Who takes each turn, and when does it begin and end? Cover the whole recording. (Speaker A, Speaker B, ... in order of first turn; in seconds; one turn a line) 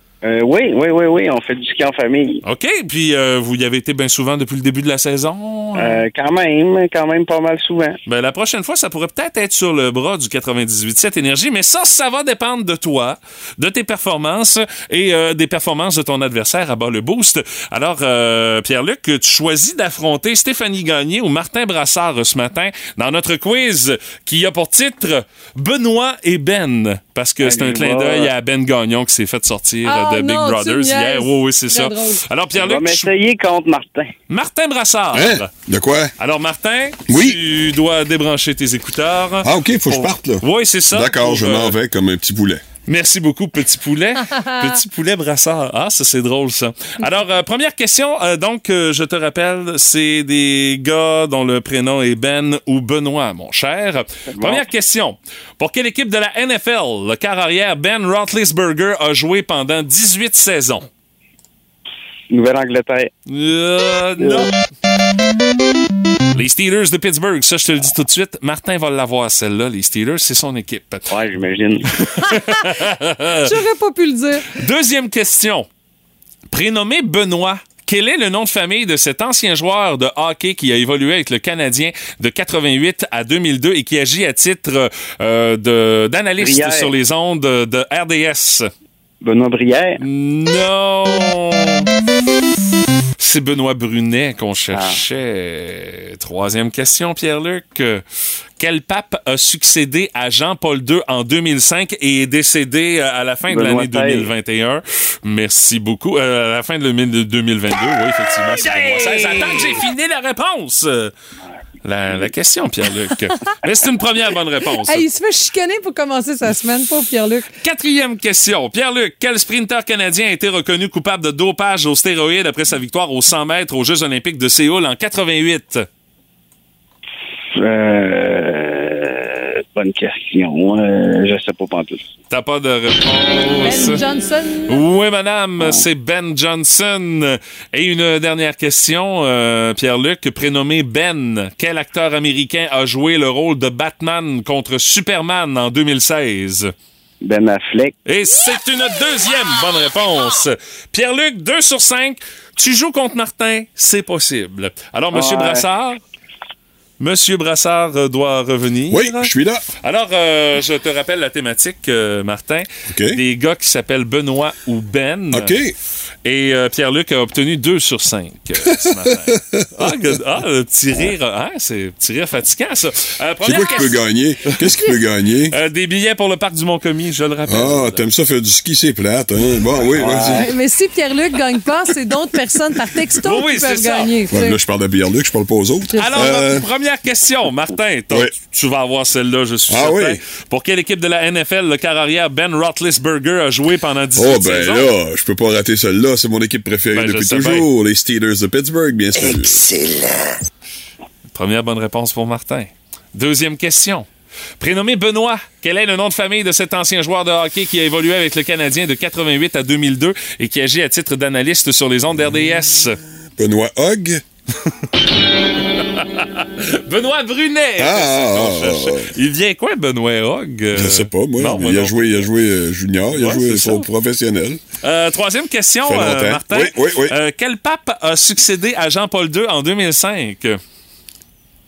Speaker A: 0.2-2.4
Speaker B: 2.4-6.0
Speaker A: 5.7-8.0
Speaker B: 8.1-33.1
Speaker A: 27.4-28.3
Speaker C: 29.9-32.2
Speaker A: 32.6-34.1
Speaker B: 34.3-35.5
Speaker D: 35.1-36.1
Speaker B: 36.2-41.8
Speaker D: 37.1-37.4
Speaker D: 39.4-42.6
Speaker B: 42.9-60.9
Speaker A: 54.3-54.6
Speaker A: 62.3-63.1
Speaker B: 63.3-64.5
Speaker A: 64.2-64.5
Speaker B: 66.3-71.1
Speaker A: 71.1-71.9
Speaker B: 72.0-73.5
Speaker C: 73.5-74.5
Speaker B: 74.5-75.7
Speaker B: 76.5-88.7
Speaker A: 86.4-86.9
Speaker A: 89.2-90.0
Speaker B: 90.0-91.9
Speaker B: 93.2-98.0
Speaker A: 94.7-95.0
Speaker B: 98.6-111.1
Speaker A: 103.5-104.3
Speaker A: 108.6-109.4
Speaker B: 111.8-115.1
Speaker C: 114.8-117.5
Speaker B: 117.6-125.9
Speaker A: 127.6-132.1
Speaker B: 132.3-134.0
Speaker C: 133.6-134.8
Speaker B: 134.7-146.7
Speaker A: 147.2-147.9
Speaker B: 148.1-156.0
Speaker A: 155.1-155.7
Speaker B: 157.0-165.6
Speaker D: 158.9-159.6
Speaker D: 162.9-163.2
Speaker D: 165.3-165.7
Speaker B: 166.2-174.9
Speaker D: 168.6-170.1
Speaker D: 173.4-175.6
Speaker B: 175.5-178.1
Speaker D: 177.4-180.5
Speaker A: 180.0-180.4
Speaker C: 180.2-184.6
Speaker B: 183.2-184.1
Speaker D: 184.3-186.7
Speaker B: 185.9-194.9
Speaker D: 189.7-190.2
Speaker D: 194.2-199.7
Speaker B: 196.9-197.7
Speaker B: 201.3-204.1
Speaker B: 204.6-213.0
Speaker D: 213.4-214.2
Speaker B: 215.8-222.2
Speaker D: 217.8-219.1
Speaker D: 220.7-224.6
Speaker B: 223.1-223.9
Speaker B: 224.8-230.6
Speaker D: 225.8-227.1